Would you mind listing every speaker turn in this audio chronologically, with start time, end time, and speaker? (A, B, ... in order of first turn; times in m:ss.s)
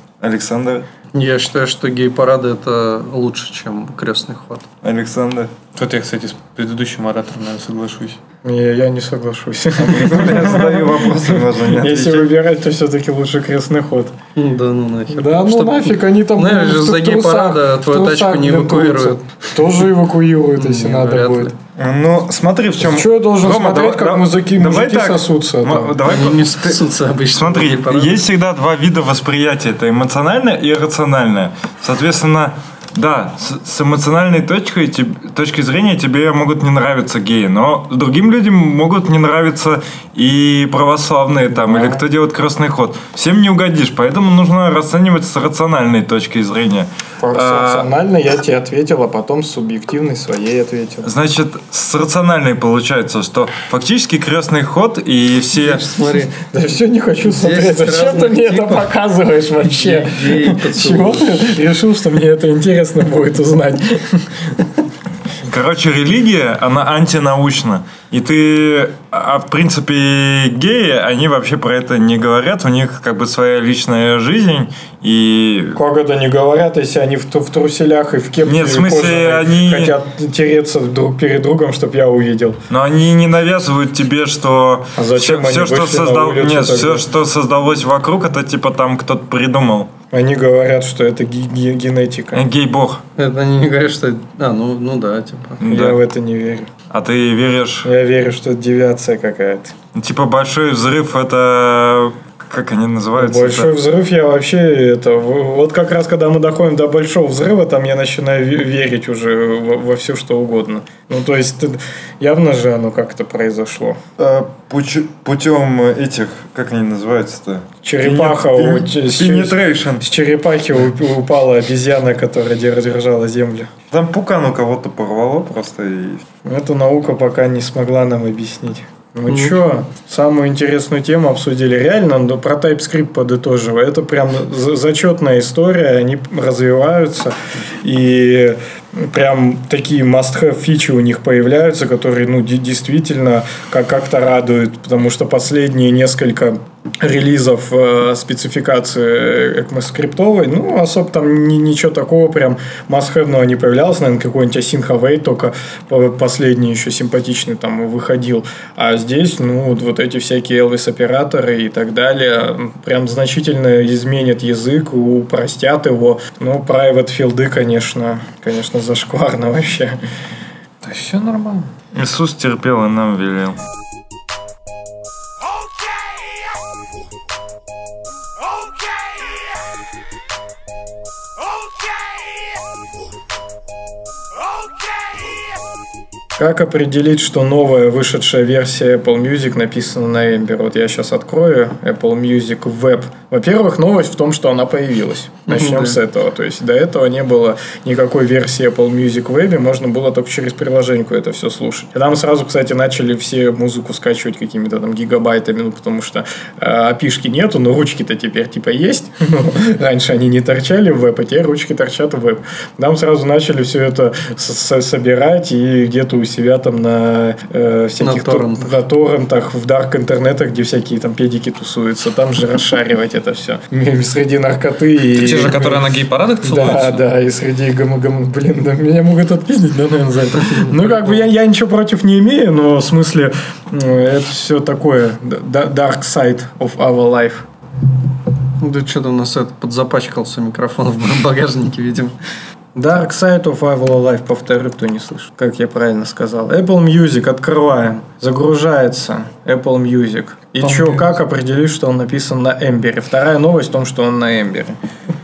0:00.2-0:00.8 A
0:01.1-0:04.7 B
0:04.8-0:05.5 A
0:05.7-0:08.2 C
0:08.4-0:14.1 D
0:09.8-0:12.3 A
0:14.4-0:19.2 B
0:15.1-0:21.5 D
0:20.6-0:21.5 B
0:21.8-0:46.9 A
0:22.8-0:26.0 D
0:26.0-0:28.2 B
0:41.5-0:42.0 D
0:47.2-0:51.1 D
0:47.4-0:47.9 C
0:51.0-0:55.9 A
0:55.6-0:56.3 B
0:55.9-1:04.6 D
0:57.2-0:58.9 B
0:59.6-1:01.4 B
1:05.4-1:15.8 A
1:15.7-1:22.6 D
1:18.4-1:19.9 A
1:22.7-1:29.9 A
1:25.0-1:27.0 D
1:30.1-1:32.4 D
1:32.3-1:33.0 A
1:33.2-1:35.6 B
1:35.6-1:36.0 A
1:35.6-1:36.7 D
1:36.9-1:37.9 A
1:37.8-1:39.7 D
1:39.9-1:43.7 A
1:43.2-1:54.0 D
1:54.2-2:00.0 A
1:57.8-2:03.7 D
2:03.9-2:06.2 A
2:06.4-2:50.0 D
2:09.3-2:09.6 B
2:50.8-2:51.7 C
2:51.9-2:53.6 A
3:06.4-3:57.4 D
3:15.5-3:16.0 B
3:38.0-3:38.8 B
3:45.1-3:47.0 C
3:58.6-4:02.1 B
4:02.7-4:14.8 D
4:10.6-4:11.1 C